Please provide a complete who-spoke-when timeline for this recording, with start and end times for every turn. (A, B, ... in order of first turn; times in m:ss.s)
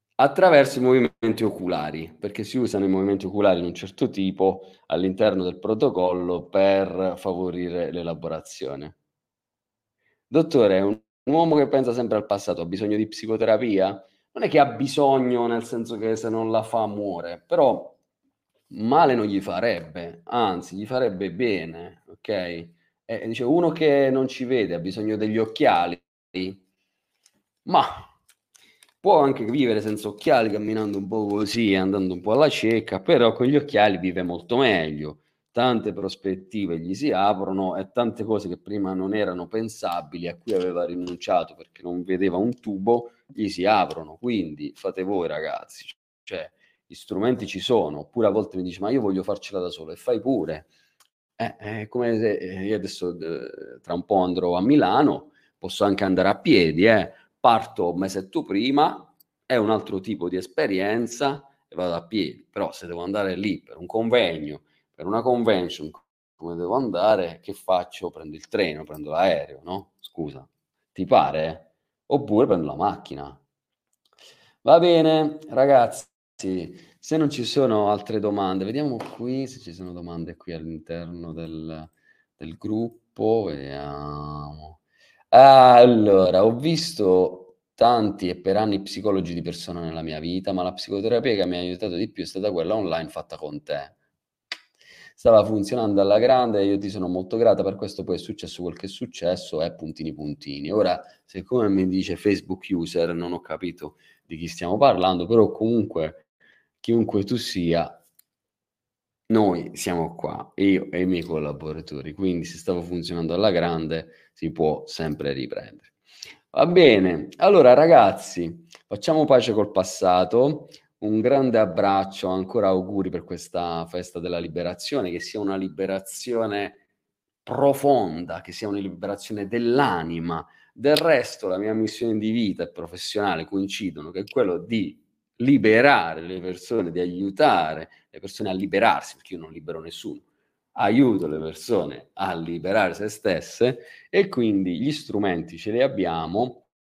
0:00.2-0:09.0 A
0:10.3-0:18.0 A
0:18.7-0:26.6 A
0:27.7-0:28.1 A
0:29.0-0:50.7 A
0:51.4-1:13.4 A
1:14.6-1:24.8 A
1:25.3-1:34.0 A
1:35.2-1:46.2 A
1:46.8-1:48.0 A
1:49.3-1:55.9 A
1:56.5-2:06.8 A
2:07.5-2:26.7 A